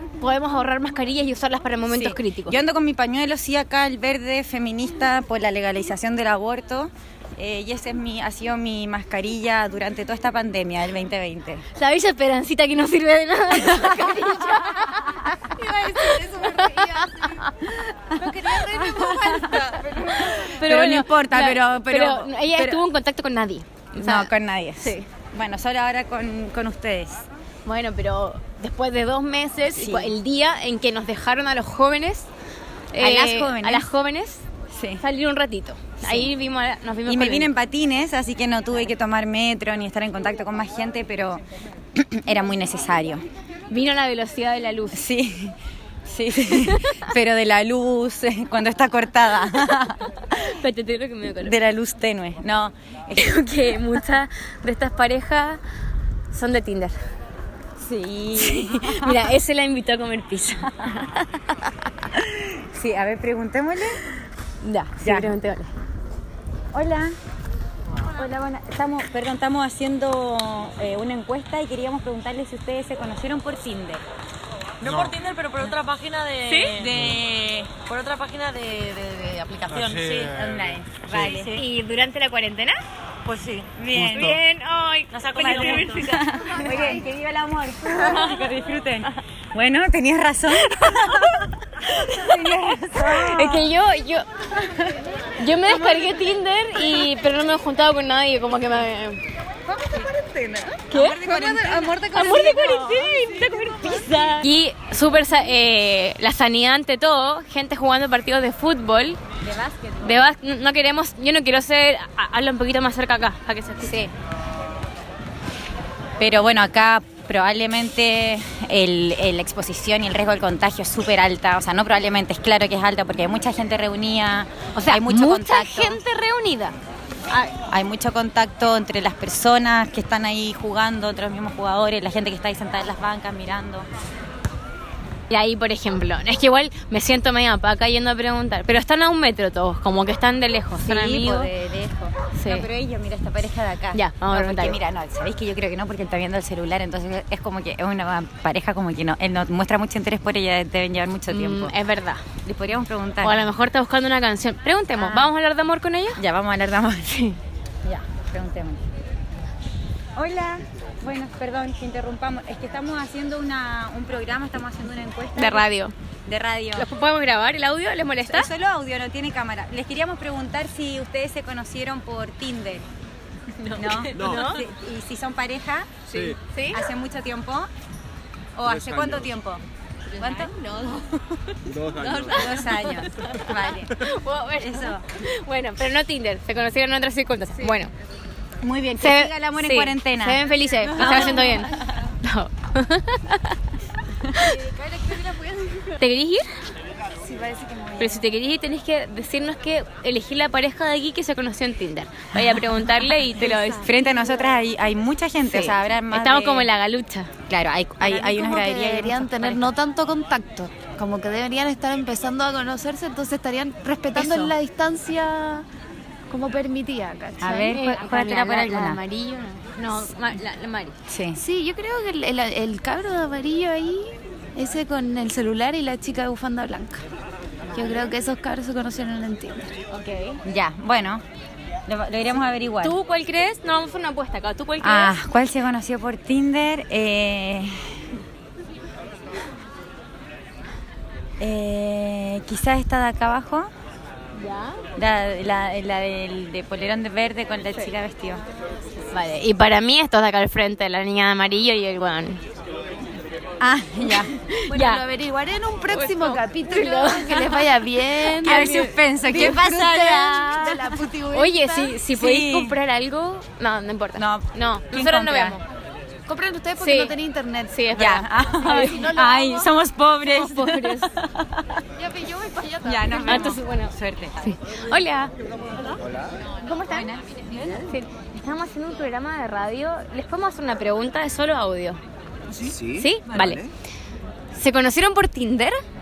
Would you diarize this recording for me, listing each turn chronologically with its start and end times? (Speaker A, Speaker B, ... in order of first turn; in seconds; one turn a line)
Speaker A: 0.2-2.6
Speaker B: 1.9-11.6
Speaker A: 11.7-17.5
Speaker C: 15.7-17.2
Speaker B: 17.8-22.8
Speaker C: 18.1-20.1
Speaker A: 19.9-25.1
Speaker B: 24.0-27.3
Speaker A: 27.6-32.3
Speaker B: 29.7-30.1
Speaker A: 32.9-34.4
Speaker B: 33.0-33.9
Speaker B: 34.7-35.0
Speaker A: 35.0-37.5
Speaker B: 36.0-36.3
Speaker B: 37.0-41.4
Speaker B: 41.9-43.2
Speaker A: 43.7-45.0
Speaker B: 44.9-50.4
Speaker A: 46.5-47.1
Speaker A: 50.3-51.5
Speaker B: 51.4-53.8
Speaker A: 53.1-55.6
Speaker A: 56.3-57.0
Speaker B: 57.8-59.3
Speaker A: 58.3-61.9
Speaker B: 60.6-61.0
Speaker B: 62.1-64.0
Speaker A: 64.6-65.7
Speaker B: 65.0-65.3
Speaker B: 66.7-67.2
Speaker B: 68.1-74.0
Speaker D: 74.8-80.5
Speaker A: 76.5-76.9
Speaker C: 76.6-77.2
Speaker C: 79.7-80.3
Speaker B: 80.3-81.5
Speaker D: 81.1-81.6
Speaker A: 81.1-82.8
Speaker D: 83.2-84.3
Speaker B: 83.8-84.4
Speaker A: 84.0-87.0
Speaker D: 85.1-86.2
Speaker B: 85.4-93.7
Speaker A: 92.3-94.2
Speaker B: 94.6-94.9
Speaker A: 95.4-99.2
Speaker C: 100.0-104.2
Speaker B: 100.7-103.1
Speaker A: 100.9-101.4
Speaker A: 102.1-109.2
Speaker B: 109.4-110.3
Speaker A: 110.0-114.1
Speaker B: 116.2-126.0
Speaker A: 124.7-126.8
Speaker B: 127.3-133.9
Speaker A: 135.3-141.5
Speaker B: 140.8-151.7
Speaker A: 142.3-142.7
Speaker A: 143.9-144.8
Speaker A: 151.3-152.2
Speaker B: 152.4-153.4
Speaker A: 153.2-156.2
Speaker B: 154.9-155.3
Speaker B: 156.2-157.1
Speaker A: 157.1-157.4
Speaker B: 157.8-158.8
Speaker B: 160.2-165.7
Speaker A: 165.3-165.9
Speaker B: 166.2-166.9
Speaker A: 166.7-168.5
Speaker B: 168.2-172.8
Speaker A: 173.6-174.7
Speaker B: 173.7-175.9
Speaker E: 174.2-174.5
Speaker A: 176.1-176.8
Speaker B: 176.7-177.7
Speaker B: 178.6-179.6
Speaker E: 178.7-179.3
Speaker A: 180.2-187.9
Speaker B: 180.2-180.5
Speaker E: 181.6-182.6
Speaker B: 182.3-184.0
Speaker B: 184.6-185.1
Speaker B: 188.6-191.8
Speaker A: 189.0-193.6
Speaker A: 194.3-194.6
Speaker C: 194.6-195.8
Speaker A: 195.8-196.5
Speaker C: 197.2-198.0
Speaker A: 197.9-203.9
Speaker B: 202.3-202.9
Speaker B: 203.7-206.7
Speaker A: 205.4-207.3
Speaker B: 207.5-209.7
Speaker C: 208.0-215.7
Speaker B: 214.1-214.5
Speaker C: 216.3-217.8
Speaker B: 217.4-219.0
Speaker A: 217.7-220.9
Speaker B: 221.1-221.4
Speaker C: 221.4-227.0
Speaker C: 227.7-229.8
Speaker A: 227.8-228.1
Speaker A: 229.9-230.4
Speaker B: 230.4-231.2
Speaker B: 231.9-233.0
Speaker A: 232.8-235.1
Speaker B: 234.8-238.0
Speaker B: 241.4-243.7
Speaker A: 244.3-244.8
Speaker B: 244.9-248.4
Speaker A: 249.1-252.4
Speaker B: 253.6-254.3
Speaker A: 254.1-255.0
Speaker C: 254.7-261.9
Speaker A: 255.9-258.9
Speaker B: 258.4-261.1
Speaker A: 261.3-265.6
Speaker B: 262.1-262.8
Speaker B: 264.2-265.6
Speaker C: 266.3-267.9
Speaker A: 266.8-267.2
Speaker A: 267.7-269.2
Speaker B: 267.9-271.8
Speaker C: 268.6-269.5
Speaker A: 270.2-271.1
Speaker C: 272.0-273.5
Speaker B: 272.8-274.4
Speaker A: 273.1-275.3
Speaker A: 276.5-282.0
Speaker B: 276.9-277.2
Speaker E: 282.6-283.7
Speaker A: 282.9-283.6
Speaker A: 284.5-285.8